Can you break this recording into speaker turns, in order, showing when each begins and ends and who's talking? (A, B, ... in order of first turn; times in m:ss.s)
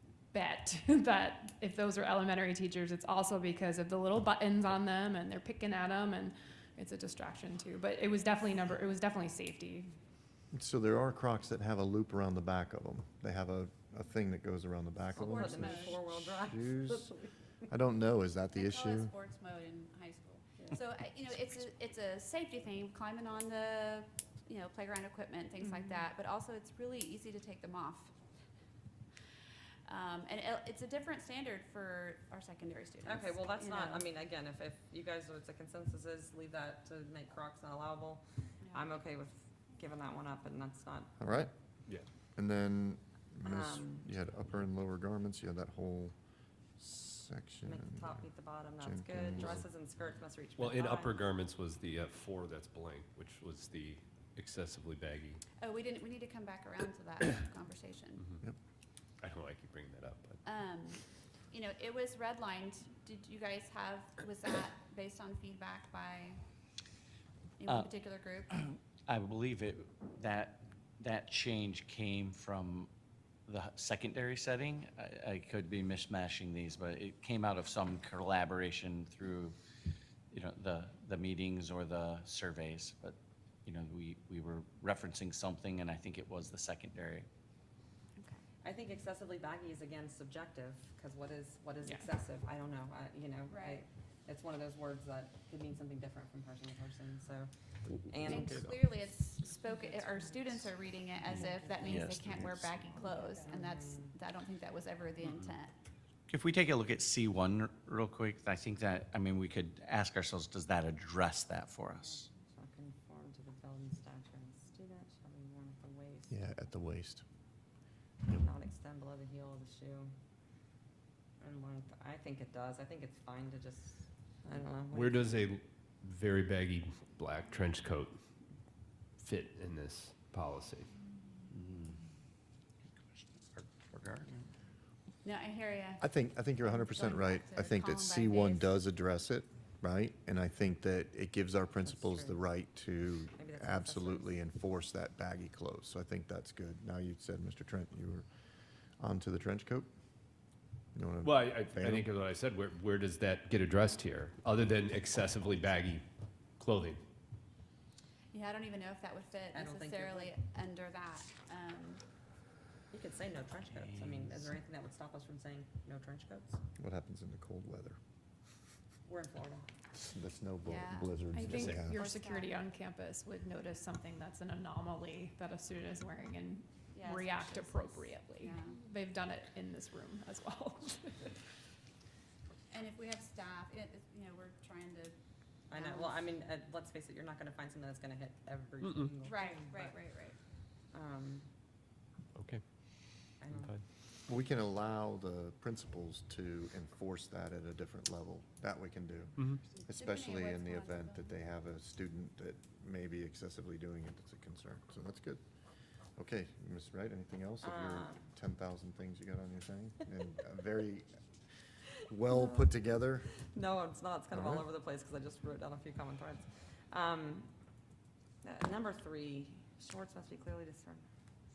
0:00.3-0:10.0 A
0:10.5-0:17.1 B
0:15.1-0:17.3 C
0:15.2-0:16.0 D
0:17.7-0:19.1 B
0:18.5-0:28.1 D
0:29.9-0:34.1 D
0:33.0-0:41.1 C
0:38.6-0:39.0 D
0:41.2-0:41.5 B
0:42.4-0:46.1 B
0:43.4-0:44.1 C
0:46.8-0:48.2 B
0:47.6-0:51.2 C
0:48.8-0:49.6 B
0:50.6-0:55.4 E
0:55.6-0:58.2 D
0:59.2-1:00.4 E
1:00.4-1:06.4 D
1:07.6-1:08.5 D
1:07.7-1:07.9 F
1:08.5-1:12.9 F
1:13.5-1:19.6 F
1:20.3-1:27.3 F
1:28.6-1:37.5 C
1:33.5-1:33.8 D
1:38.0-1:38.8 C
1:38.2-1:45.7 D
1:39.8-1:40.5 C
1:41.3-1:42.8 F
1:41.4-1:41.9 C
1:43.0-1:44.1 C
1:46.3-1:52.3 F
1:52.0-1:56.4 C
1:56.3-1:57.2 B
1:58.3-2:00.1 C
2:01.4-2:05.4 C
2:04.9-2:08.2 E
2:09.2-2:10.9 E
2:11.5-2:12.0 F
2:13.2-2:14.4 F
2:15.2-2:18.8 D
2:16.0-2:28.3 B
2:21.8-2:22.6 C
2:23.3-2:24.4 C
2:29.0-2:29.9 B
2:30.9-2:32.1 B
2:31.2-2:36.0 E
2:36.6-2:37.0 E
2:38.3-2:42.0 D
2:39.5-2:40.3 C
2:42.9-2:46.6 C
2:46.8-2:48.0 B
2:49.0-2:49.7 C
2:49.9-2:52.0 B
2:50.6-2:52.5 D
2:51.3-3:01.3 A
2:56.9-2:58.8 D
3:02.7-3:05.1 D
3:05.7-3:06.2 D
3:05.7-3:10.0 C
3:08.8-3:09.1 E
3:09.2-3:10.4 D
3:10.9-3:11.5 C
3:12.3-3:12.6 E
3:13.4-3:13.8 C
3:13.5-3:13.8 E
3:14.3-3:25.4 B
3:19.9-3:21.4 D
3:26.2-3:31.1 B
3:27.6-3:28.2 C
3:32.0-3:33.3 B
3:32.3-3:32.7 C
3:33.5-3:37.5 C
3:34.3-3:34.6 B
3:38.4-3:41.0 C